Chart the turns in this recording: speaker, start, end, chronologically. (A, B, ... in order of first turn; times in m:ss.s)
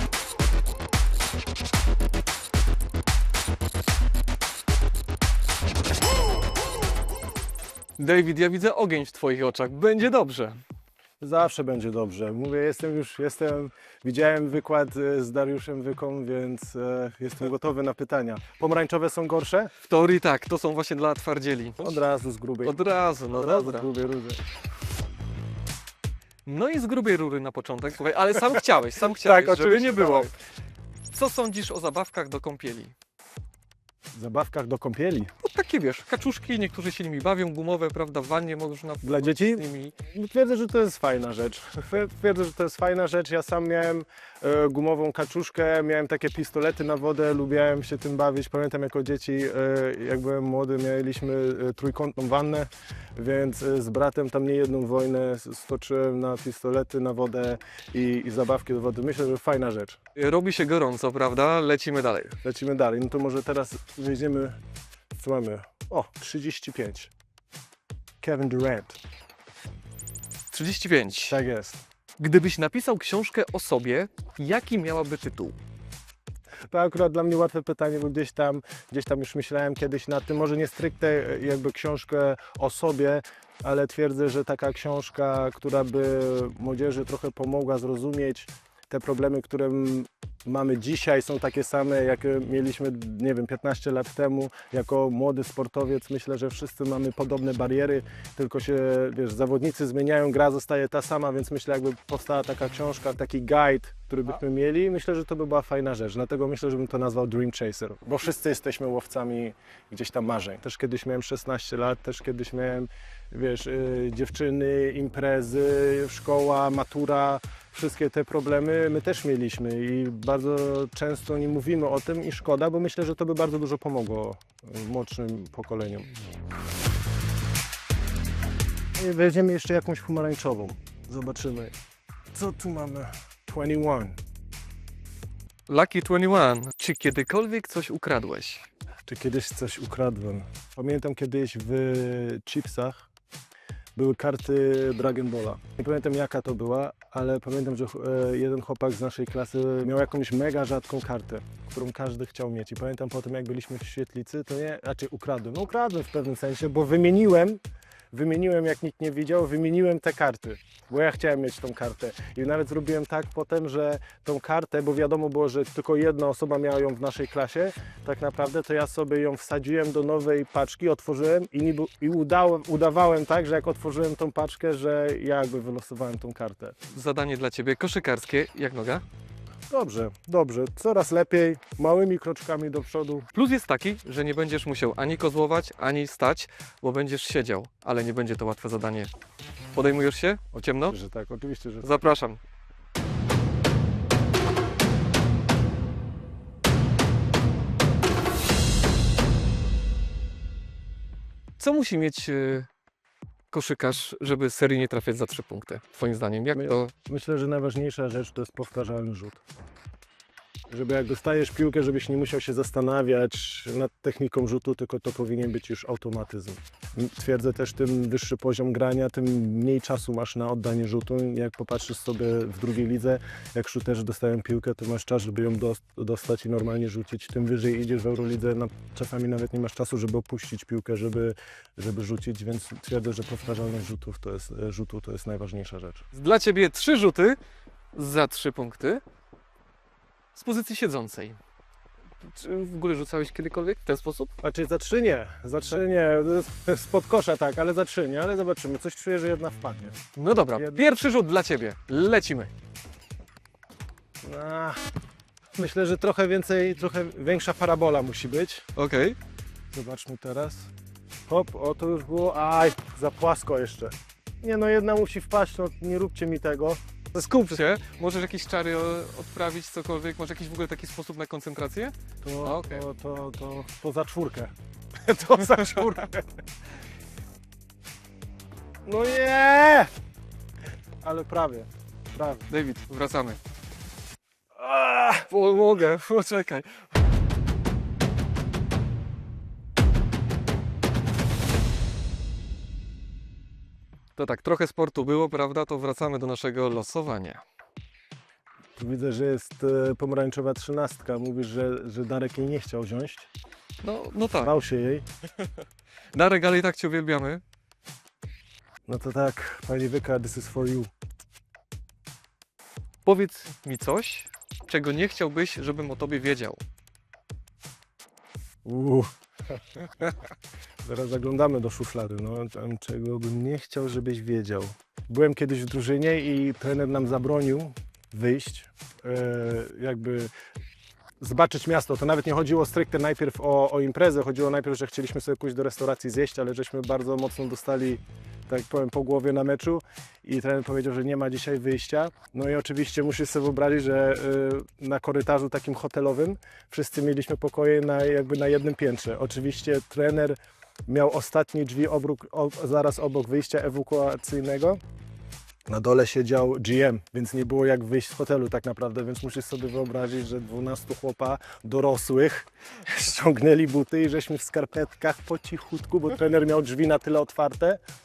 0:08.0-0:10.6 A
0:11.2-0:19.7 B
0:19.8-0:22.0 A
0:21.8-0:22.8 B
0:22.6-0:23.9 A
0:23.3-0:24.4 B
0:26.5-0:30.3 A
0:28.9-0:30.3 B
0:31.1-0:32.9 A
0:34.1-0:35.3 B
0:35.4-0:40.0 A
0:39.0-1:00.0 B
1:00.2-1:02.4 A
1:02.4-1:04.6 B
1:05.1-1:07.1 B
1:08.2-1:09.0 B
1:10.5-1:11.4 A
1:11.3-1:11.8 B
1:12.2-1:15.6 A
1:16.7-2:06.1 B
2:09.0-2:11.8 B
2:12.3-2:14.2 B
2:15.7-2:18.7 A
2:19.1-2:23.1 B
2:24.0-2:37.6 B
2:38.1-2:56.8 B
2:56.9-2:59.0 A
2:59.7-3:03.3 B
3:03.3-3:09.1 A
3:09.7-3:11.0 A
3:10.9-3:11.9 B
3:11.8-3:12.4 A
3:21.6-3:22.7 A
3:23.5-3:26.9 A
3:26.5-3:29.4 B
3:30.7-3:56.0 B
3:56.1-3:57.4 A
3:57.9-3:59.0 A
4:00.3-4:01.4 A
4:02.2-4:04.3 A
4:04.4-4:10.0 B
4:10.2-4:12.5 A
4:10.6-4:10.9 B
4:14.2-4:14.8 B
4:15.6-4:18.6 B
4:18.8-4:19.2 A
4:19.7-4:20.7 B
4:21.3-4:26.8 B
4:27.1-4:32.9 A
4:32.2-4:34.5 B
4:35.0-4:36.3 B
4:38.8-4:39.9 B
4:41.0-4:42.5 B
4:42.5-4:43.4 A
4:44.6-4:45.3 B
4:45.3-4:46.7 A
4:54.2-4:57.4 A
4:58.8-5:03.3 B
5:03.8-5:04.5 A
5:04.4-5:05.1 B
5:06.1-5:07.4 A
5:08.9-5:10.9 B
5:13.0-5:16.6 A
5:18.6-5:19.1 B
5:19.8-5:20.2 B
5:20.8-5:30.3 B
5:31.2-5:54.8 B
5:55.7-6:07.8 B